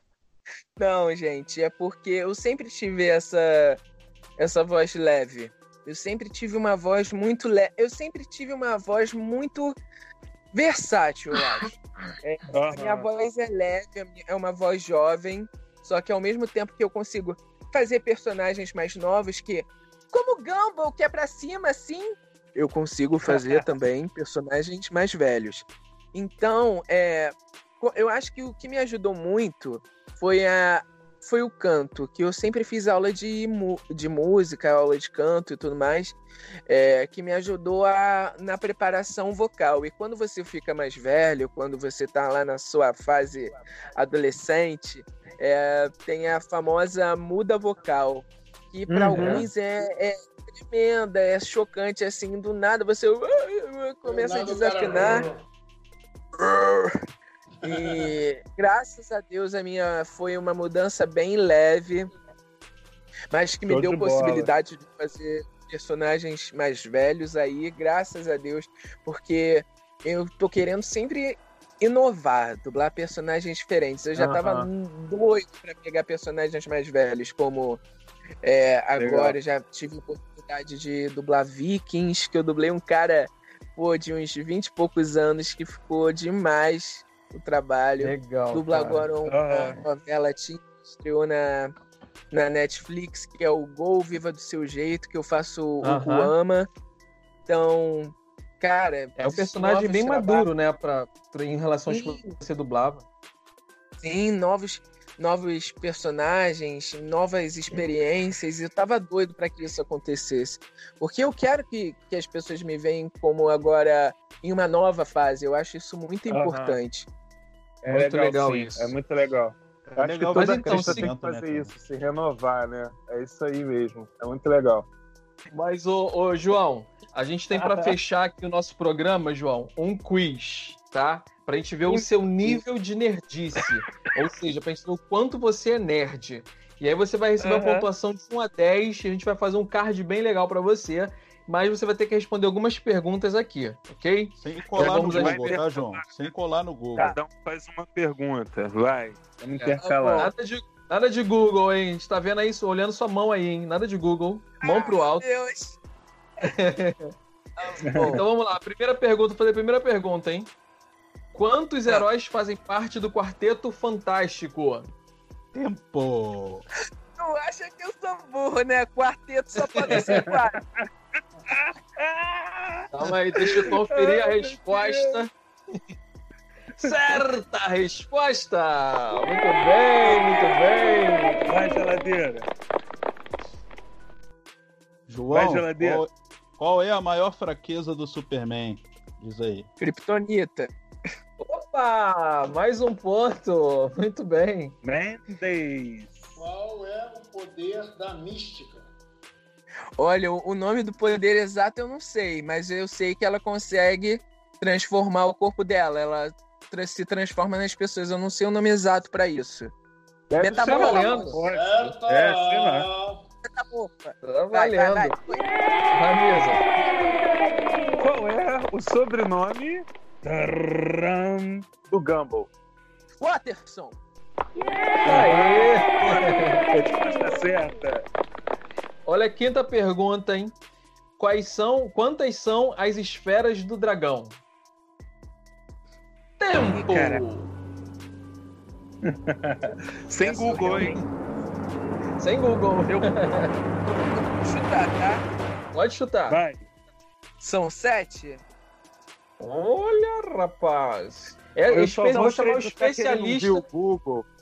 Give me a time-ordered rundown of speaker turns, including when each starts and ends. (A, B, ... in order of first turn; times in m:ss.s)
0:00.8-0:03.8 A
0:04.4-0:09.8 A
0:10.5-0:36.2 A
0:12.5-0:13.0 B
0:23.3-0:23.6 B
0:36.7-0:55.2 A
0:48.9-0:49.4 B
0:49.1-0:49.5 C
0:54.0-0:55.4 D
0:56.4-0:57.0 A
0:57.6-0:58.1 D
0:57.6-1:02.1 A
1:03.3-1:17.8 A
1:03.6-1:04.5 B
1:14.2-1:14.7 B
1:18.4-1:31.7 A
1:19.0-1:19.4 B
1:28.0-1:29.1 C
1:29.2-1:29.8 B
1:32.3-1:36.7 A
1:35.8-1:36.3 C
1:37.5-1:40.5 A
1:39.2-1:43.0 C
1:41.9-1:42.2 A
1:44.0-1:57.1 A
1:56.3-1:56.8 B
1:57.8-2:04.9 B
1:57.9-1:58.9 C
1:59.9-2:01.7 E
2:00.3-2:01.1 C
2:05.5-2:25.6 C
2:11.9-2:12.6 A
2:17.4-2:17.8 B
2:24.4-2:27.2 E
2:24.8-2:26.1 B
2:27.0-2:30.3 B
2:29.4-2:35.2 C
2:29.8-2:30.3 A
2:34.6-2:35.8 A
2:36.4-2:37.1 C
2:37.6-2:38.2 A
2:38.0-2:38.2 B
2:38.1-2:40.5 C
2:41.3-2:44.9 C
2:45.5-2:46.6 E
2:47.1-2:50.6 A
2:49.8-2:50.2 C
2:50.0-2:50.3 B
2:51.5-2:52.9 B
2:52.9-2:55.8 C
2:53.7-2:55.2 B
2:56.8-3:01.4 C
2:56.8-2:57.2 B
3:00.0-3:00.4 B
3:01.4-3:02.5 B
3:05.1-3:09.7 E
3:05.3-3:06.0 B
3:09.8-3:10.7 A
3:11.4-3:14.7 C
3:14.8-3:16.3 B
3:16.4-3:18.9 D
3:20.0-3:29.7 A
3:30.3-3:32.9 B
3:30.4-3:31.4 A
3:30.5-3:31.4 C
3:31.4-3:33.2 D
3:33.4-3:35.5 A
3:34.2-3:35.2 C
3:35.9-3:36.6 C
3:38.0-3:42.5 B
3:43.2-3:44.0 A
3:45.0-3:46.6 C
3:45.0-3:48.0 B
3:49.0-3:50.5 C
3:51.2-3:54.4 C
3:56.4-3:57.5 C
3:56.5-3:57.2 A
3:59.0-4:00.9 B
4:00.2-4:01.0 A
4:00.8-4:01.0 C
4:02.2-4:03.5 C
4:03.0-4:05.2 A
4:05.7-4:06.4 C
4:06.3-4:06.6 B
4:07.4-4:08.4 A
4:09.4-4:13.6 C
4:11.7-4:14.3 B